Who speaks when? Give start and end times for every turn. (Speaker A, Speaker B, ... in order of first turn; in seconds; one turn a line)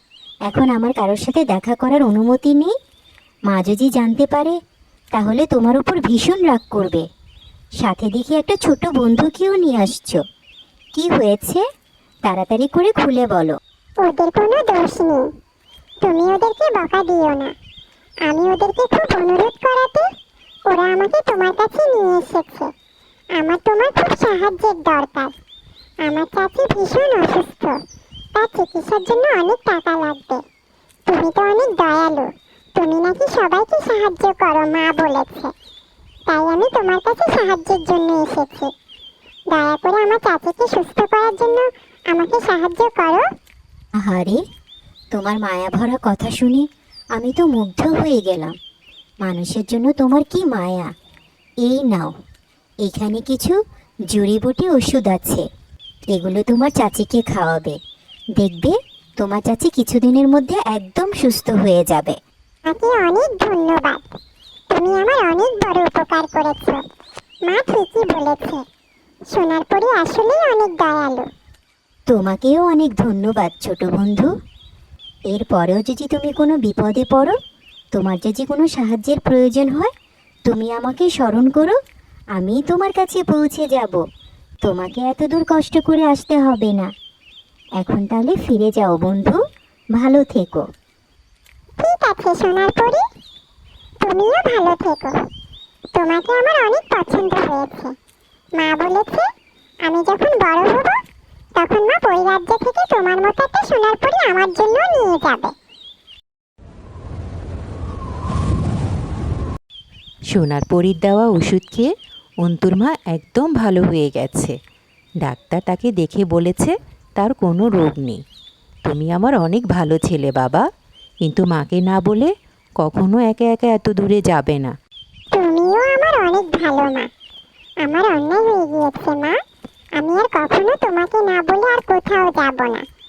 Speaker A: 0.4-2.7
Speaker A: 3.5-4.6
Speaker A: 5.1-7.1
Speaker A: 7.8-10.2
Speaker A: 10.9-11.6
Speaker A: 12.2-13.6
Speaker B: 14.0-15.3
Speaker B: 16.0-17.5
Speaker B: 18.2-20.1
Speaker B: 20.7-22.7
Speaker B: 23.3-25.4
Speaker B: 26.0-27.8
Speaker B: 28.4-30.4
Speaker B: 31.1-35.5
Speaker B: 36.3-38.7
Speaker B: 39.5-43.2
Speaker A: 44.0-44.4
Speaker A: 45.1-48.5
Speaker A: 49.2-50.9
Speaker A: 51.6-52.1
Speaker A: 52.8-53.6
Speaker A: 54.1-55.4
Speaker A: 56.1-57.8
Speaker A: 58.4-62.2
Speaker B: 62.6-64.1
Speaker B: 64.7-66.8
Speaker B: 67.4-68.6
Speaker B: 69.3-71.3
Speaker A: 72.1-74.3
Speaker A: 75.3-77.4
Speaker A: 77.9-79.9
Speaker A: 80.5-81.8
Speaker A: 82.3-84.0
Speaker A: 84.6-86.9
Speaker A: 87.8-89.4
Speaker A: 89.9-90.6
Speaker B: 91.8-93.0
Speaker B: 94.0-95.2
Speaker B: 95.9-97.9
Speaker B: 98.5-99.3
Speaker B: 99.8-101.0
Speaker B: 101.6-105.5
Speaker C: 110.3-111.9
Speaker C: 112.4-114.5
Speaker C: 115.2-118.2
Speaker C: 118.8-120.6
Speaker C: 121.2-124.7
Speaker B: 125.3-127.1
Speaker B: 127.8-129.4
Speaker B: 129.9-132.9